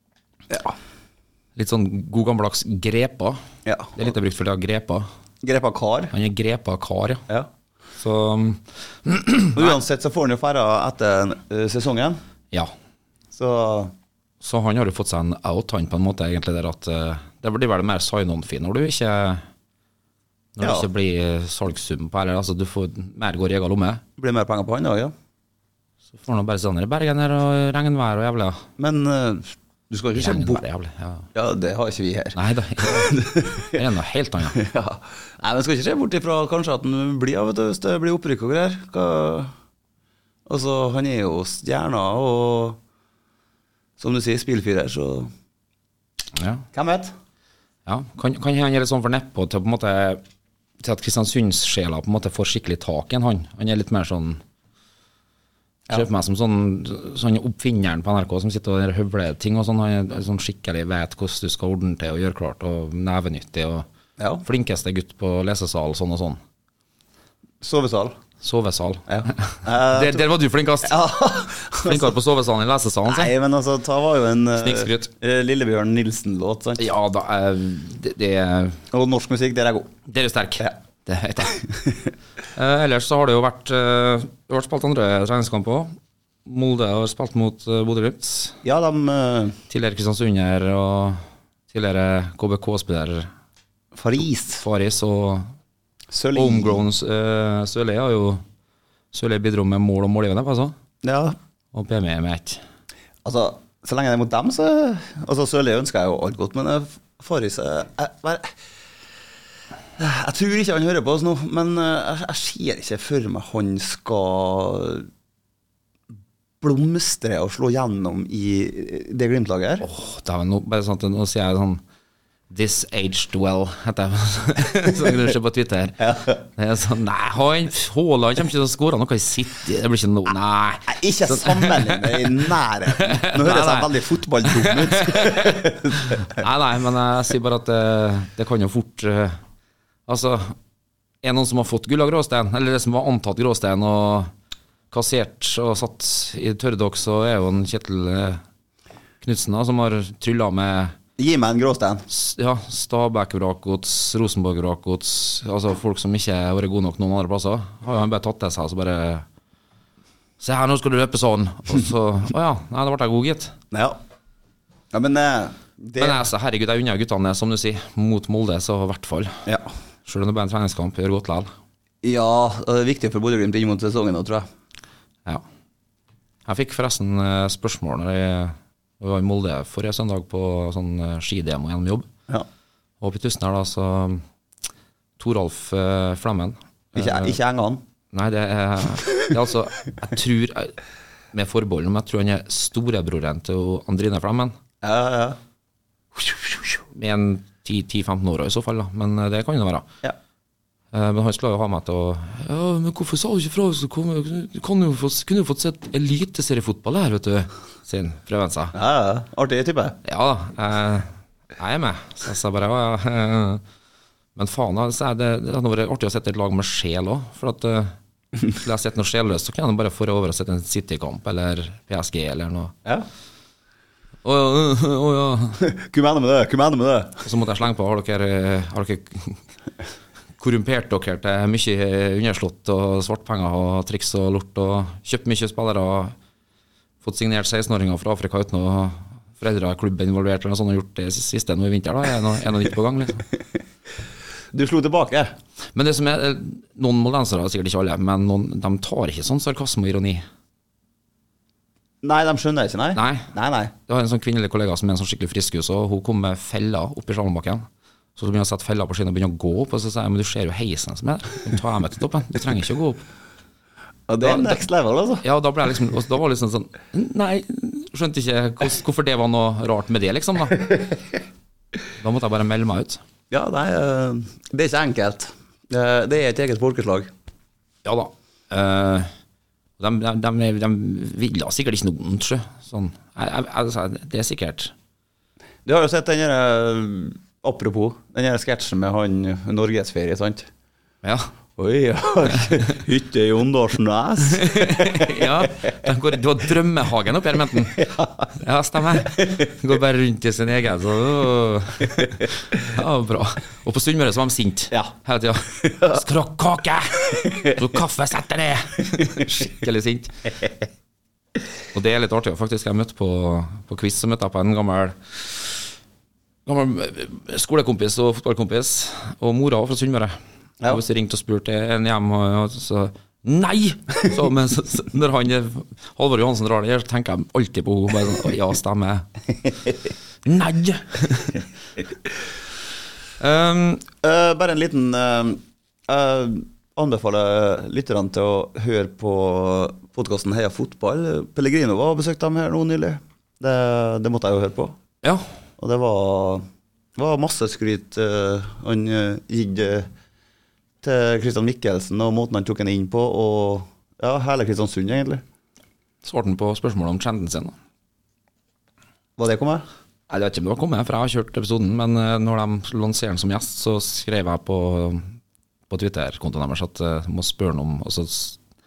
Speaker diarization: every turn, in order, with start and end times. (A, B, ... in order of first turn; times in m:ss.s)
0:00.5-0:00.8 A
0:01.6-0:03.4 B
0:03.6-0:04.1 A
0:04.0-0:05.1 B
0:05.4-0:06.1 A
0:06.1-0:07.3 B
0:08.0-0:09.8 B
0:09.5-0:12.2 A
0:13.3-0:13.9 A
0:14.4-0:19.4 B
0:20.6-0:24.0 B
0:20.6-0:20.9 A
0:24.2-0:25.1 A
0:26.2-0:28.6 B
0:28.8-0:30.6 A
0:30.1-0:31.3 B
0:31.4-0:33.8 A
0:32.4-0:34.6 B
0:34.5-0:39.5 A
0:40.5-0:42.8 A
0:44.0-0:45.3 A
0:46.4-0:46.7 B
0:46.7-0:47.1 A
0:47.9-0:50.2 B
0:50.8-0:54.4 B
0:55.9-1:03.9 B
1:04.2-1:04.4 A
1:04.4-1:06.4 B
1:07.6-1:08.2 A
1:08.4-1:11.0 B
1:09.1-1:10.2 A
1:10.8-1:12.2 A
1:11.8-1:13.3 B
1:13.1-1:16.8 A
1:14.6-1:15.1 B
1:16.8-1:18.8 B
1:18.9-1:19.9 A
1:20.1-1:21.6 B
1:22.6-1:25.9 B
1:26.4-1:28.6 B
1:28.6-1:29.6 A
1:29.7-1:33.3 B
1:33.9-1:34.6 A
1:34.6-1:35.5 B
1:36.1-1:36.8 A
1:36.3-1:38.4 B
1:39.1-1:40.8 B
1:41.0-1:41.4 A
1:41.7-1:42.6 B
1:43.2-1:48.5 A
1:50.0-1:55.1 A
1:56.6-1:59.9 A
1:59.8-2:01.8 B
2:02.5-2:19.4 B
2:06.0-2:06.4 A
2:10.9-2:16.4 A
2:20.1-2:20.6 B
2:21.2-2:24.3 B
2:24.9-2:28.4 B
2:29.2-2:31.0 B
2:31.2-2:32.0 A
2:32.1-2:39.3 B
2:40.4-2:43.5 B
2:43.7-2:44.0 A
2:44.9-2:46.2 A
2:46.0-2:49.4 B
2:50.1-2:51.5 B
2:52.0-2:54.5 A
2:56.5-3:02.1 B
3:03.0-3:04.2 B
3:05.2-3:07.4 B
3:07.0-3:07.8 A
3:08.1-3:10.8 B
3:11.3-3:14.6 B
3:14.8-3:15.4 A
3:16.9-3:19.9 B
3:20.9-3:28.8 B
3:28.7-3:30.0 A
3:30.0-3:33.6 B
3:34.4-3:37.9 B
3:38.5-3:42.7 B
3:44.2-3:45.6 B
3:45.6-3:47.2 A
3:47.2-3:49.4 B
3:50.4-3:56.2 B
3:57.0-4:03.2 B
4:04.5-4:05.3 A
4:05.8-4:10.2 B
4:12.0-4:13.7 A
4:13.0-4:13.3 B
4:13.9-4:23.0 B
4:24.1-4:25.2 A
4:24.2-4:24.6 B
4:25.2-4:30.7 B
4:32.0-4:33.0 B
4:33.3-4:37.1 A
4:37.8-4:39.1 B
4:39.8-4:44.7 B
4:45.6-4:50.5 A
4:51.0-4:51.3 B
4:51.6-4:55.5 A
4:54.3-5:10.3 B
4:57.8-4:58.3 A
5:05.6-5:05.9 A
5:07.2-5:07.5 A
5:11.7-5:15.5 B
5:16.5-5:20.1 B
5:20.6-5:29.1 B
5:30.2-5:31.4 B
5:33.2-5:33.9 B
5:34.0-5:44.8 A
5:45.6-5:46.4 A
5:47.0-5:49.9 A
5:50.8-5:55.2 A
5:56.0-5:57.5 B
5:59.2-5:59.6 A
6:00.1-6:05.1 B
6:05.7-6:08.4 B